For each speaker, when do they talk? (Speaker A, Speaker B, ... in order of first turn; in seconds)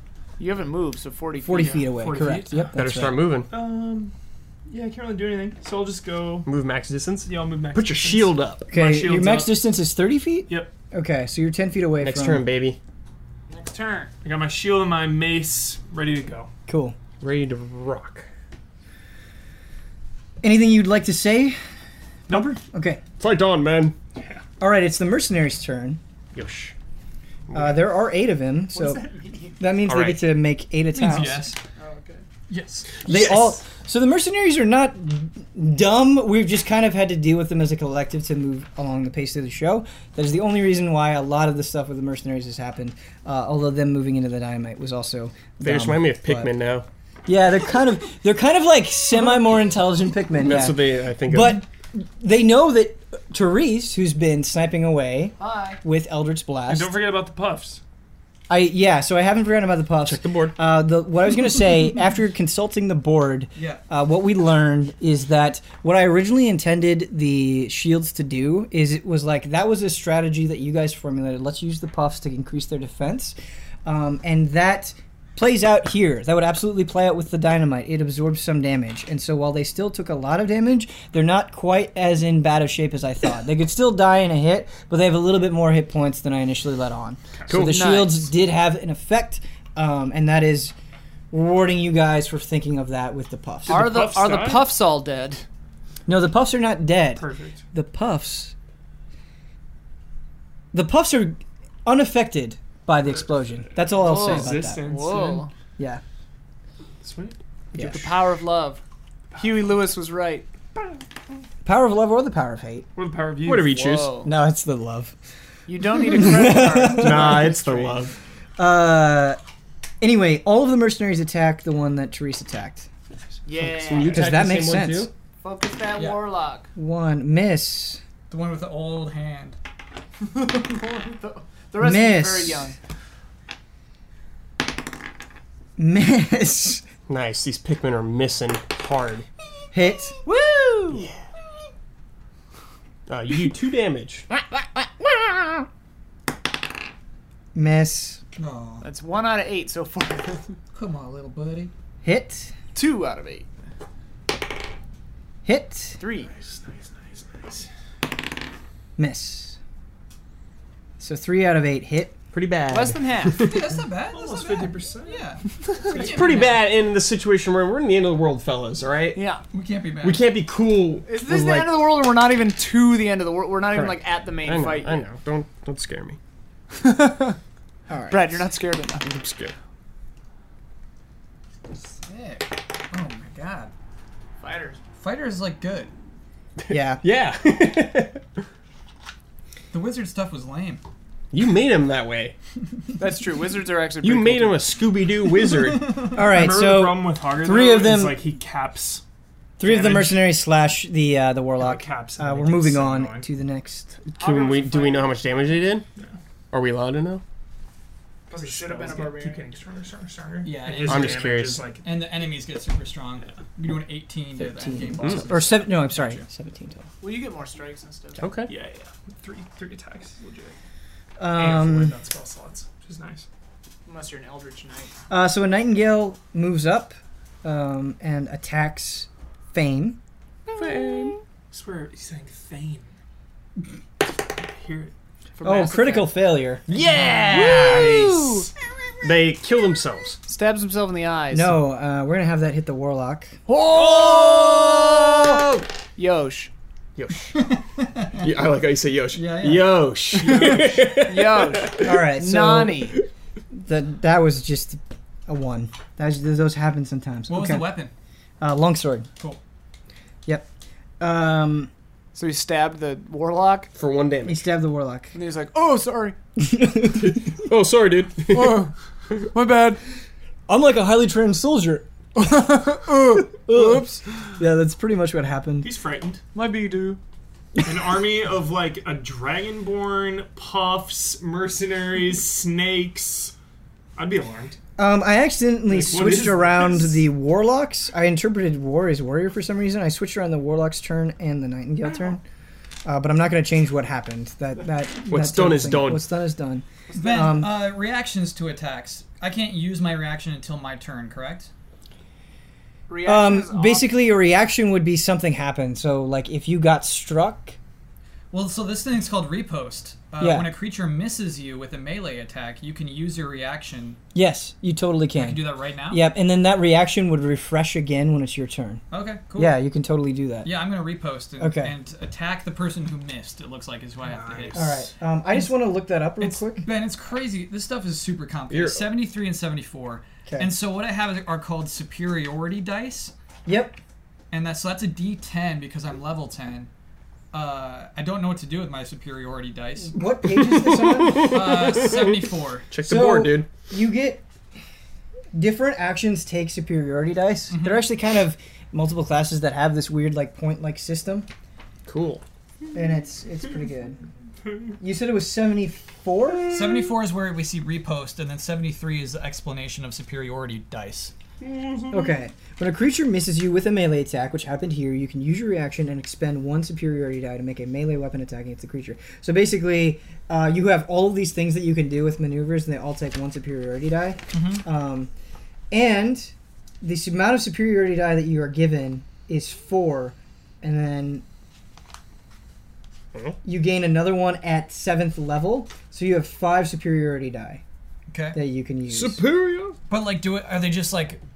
Speaker A: 0.4-1.9, 13.5-14.1, 28.8-29.6, 31.8-32.2, 55.4-55.8, 87.7-88.3, 93.7-95.4, 104.0-105.5, 107.8-108.8, 109.4-110.5, 113.8-114.3, 115.7-118.0, 123.5-124.5, 125.4-126.7, 130.2-132.8, 140.2-141.1, 148.8-150.6, 152.8-153.5, 156.0-156.3, 162.7-163.5, 169.2-169.4, 171.1-175.1, 176.7-177.4, 178.1-179.1, 182.1-182.4, 184.4-184.8, 193.0-194.7, 204.2-205.2, 208.3-209.6, 217.0-218.3, 223.9-224.9, 230.5-231.1, 235.4-236.1, 237.4-238.5, 240.3-241.6, 243.5-246.5, 251.0-253.0, 262.1-263.7, 265.1-266.2, 268.3-269.8, 272.2-274.0, 276.3-277.0, 296.9-297.4, 302.9-303.9
Speaker B: 1.4-3.2, 8.7-12.4, 16.7-17.0, 20.4-21.6, 22.3-23.0, 24.6-26.0, 27.5-29.0, 29.6-31.5, 33.0-46.5, 47.3-57.0, 58.5-90.7, 91.3-93.9, 96.1-98.5, 100.7-104.8, 107.8-108.0, 111.6-112.9, 114.2-115.1, 116.0-117.5, 118.6-119.4, 120.0-122.9, 124.1-125.1, 126.8-128.0, 131.8-132.7, 135.8-136.8, 139.7-140.2, 147.5-148.2, 152.0-152.5, 155.4-156.0, 159.0-159.6, 161.0-162.2, 177.9-178.4, 186.7-187.0, 196.1-198.2, 199.6-203.9, 214.4-216.9, 221.2-222.0, 225.1-230.0, 235.4-236.6, 241.3-243.4, 251.8-252.9, 253.5-257.7, 258.4-259.1, 261.0-261.7, 264.2-265.1, 266.4-267.3, 270.5-271.9, 273.2-275.7, 284.8-292.2, 292.9-297.6, 303.1-307.6, 310.2-310.5, 314.1-318.8, 319.4-320.5, 321.4-321.8, 324.5-326.7, 333.5-333.8, 339.9-341.6, 342.9-344.2, 345.3-351.3, 352.7-354.0, 354.8-356.5, 361.9-375.1, 375.7-381.2, 383.4-387.6, 388.3-389.2
Speaker C: 1.6-2.8, 3.5-4.1, 4.7-6.5, 7.3-9.6, 14.2-16.5, 22.3-22.6, 24.2-24.4, 28.9-29.3, 56.7-57.8, 87.4-87.7, 93.7-94.7, 97.2-97.6, 103.8-105.5, 107.0-108.2, 113.0-113.9, 156.3-157.7, 164.1-165.3, 196.1-199.0, 199.6-200.2, 201.6-203.3, 208.3-211.9, 218.5-220.6, 221.3-223.3, 231.5-232.9, 234.2-234.9, 237.4-238.4, 250.3-250.6, 275.6-276.2, 277.6-283.3, 284.0-284.6, 285.7-287.1
Speaker D: 2.7-3.5, 6.5-8.7, 12.0-12.8, 17.2-18.3, 23.2-24.0, 26.3-26.7, 27.5-27.8, 29.9-30.2, 45.6-46.9, 50.4-51.6, 60.0-60.5, 87.5-87.8, 113.4-114.2, 116.9-118.2, 123.7-125.1, 137.1-139.3, 143.1-144.3, 162.3-163.8, 165.8-169.2, 170.0-171.9, 173.7-176.2, 179.0-179.6, 186.6-188.2, 191.3-192.3, 194.0-196.1, 204.1-205.9, 206.5-207.2, 210.9-211.7, 218.2-218.5, 230.6-231.2, 237.1-238.1, 239.0-240.2, 243.9-244.9, 247.0-247.4, 248.2-251.9, 263.8-264.4, 266.9-268.7, 295.1-296.1, 324.0-324.7, 328.5-328.9, 340.4-343.5, 351.9-352.2, 388.9-389.8
Speaker E: 30.9-31.6, 32.5-33.1, 63.6-63.8, 128.3-129.6, 148.4-148.8, 150.7-151.7, 163.4-166.7, 169.5-170.2, 182.1-183.7, 185.0-185.9, 189.7-190.8, 210.4-211.3, 211.8-216.2, 236.7-238.0, 247.3-248.3, 249.1-249.7, 257.3-257.9, 296.9-301.5, 308.3-314.0, 315.2-316.1, 318.9-319.6, 320.4-324.7, 326.2-333.1, 334.3-336.7, 337.3-340.0, 341.2-342.7, 347.5-347.9, 356.5-361.1, 374.3-374.6, 388.1-388.4, 389.9-391.2